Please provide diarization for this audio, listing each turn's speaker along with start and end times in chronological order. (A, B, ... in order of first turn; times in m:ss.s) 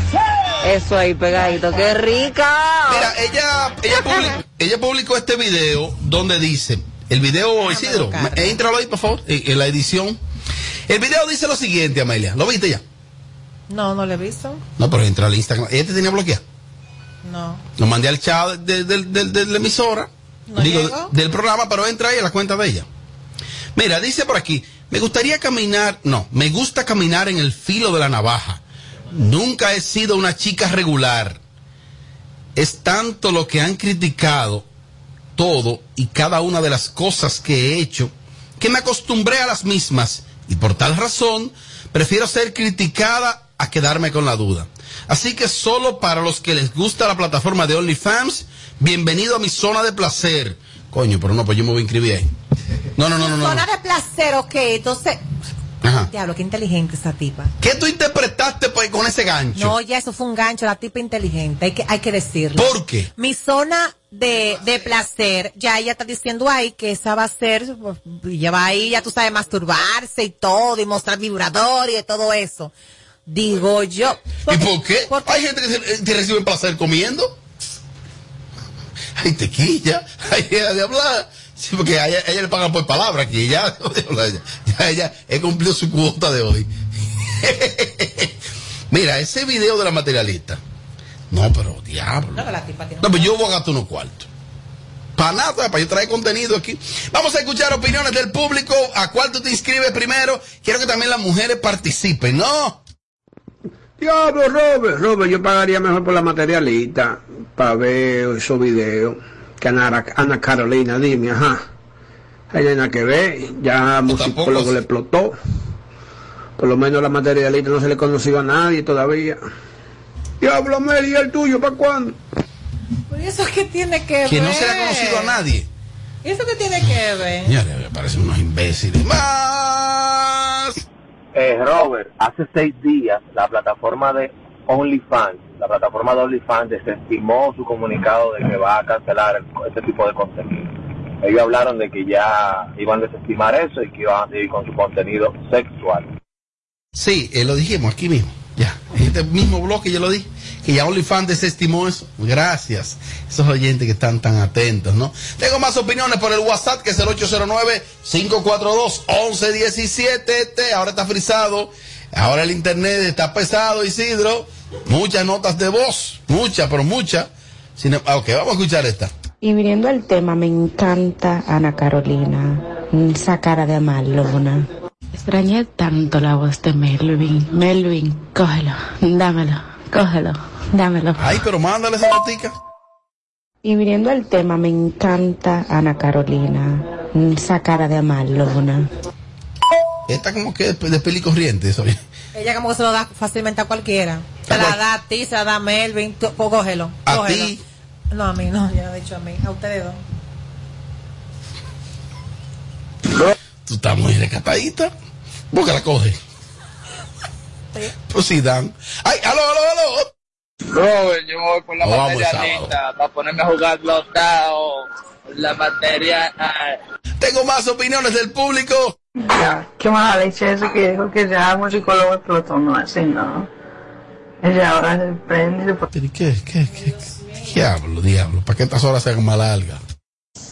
0:00.6-0:03.1 A
0:02.9-0:10.2 B
0:07.7-0:08.6 C
0:10.9-0:12.8 B
0:13.7-0:14.6 C
0:14.8-0:16.4 B
0:17.2-0:17.6 C
0:17.8-0:22.9 B
0:20.5-0:21.1 C
0:23.7-0:28.6 B
0:29.1-0:31.4 B
0:32.6-0:34.6 B
0:35.4-0:52.3 B
0:53.0-0:53.6 B
0:53.2-0:55.2 C
0:55.8-0:56.1 B
0:56.0-0:57.5 C
0:57.6-0:59.8 B
0:59.6-1:12.7 C
1:02.6-1:03.1 B
1:13.3-1:15.4 C
1:14.5-1:17.4 B
1:19.2-1:26.7 B
1:27.4-1:28.3 B
1:28.9-1:30.6 B
1:31.3-1:32.4 B
1:32.3-1:33.3 C
1:33.0-1:34.3 B
1:35.2-1:42.8 B
1:44.0-1:51.6 D
1:52.5-1:55.3 D
1:54.1-1:54.8 B
1:56.6-1:59.4 D
2:00.4-2:02.2 D
2:03.1-2:05.4 C
2:04.2-2:05.7 B
2:06.2-2:07.5 C
2:07.4-2:10.8 B
2:11.3-2:26.1 E
2:26.9-2:49.1 B
2:49.4-3:01.4 F
3:01.2-3:02.5 B
3:03.6-3:08.9 F
3:10.1-3:12.0 B
3:12.3-3:17.5 C
3:14.5-3:14.8 B
3:17.0-3:17.6 B
3:18.1-3:20.0 C
3:23.7-3:24.9 B
3:25.5-3:26.2 B
3:28.0-3:30.1 B
3:30.7-3:36.8 G
3:31.8-3:32.8 B
3:37.2-3:38.9 B
3:39.3-3:43.5 H
3:44.4-3:45.8 H
3:45.9-3:49.8 B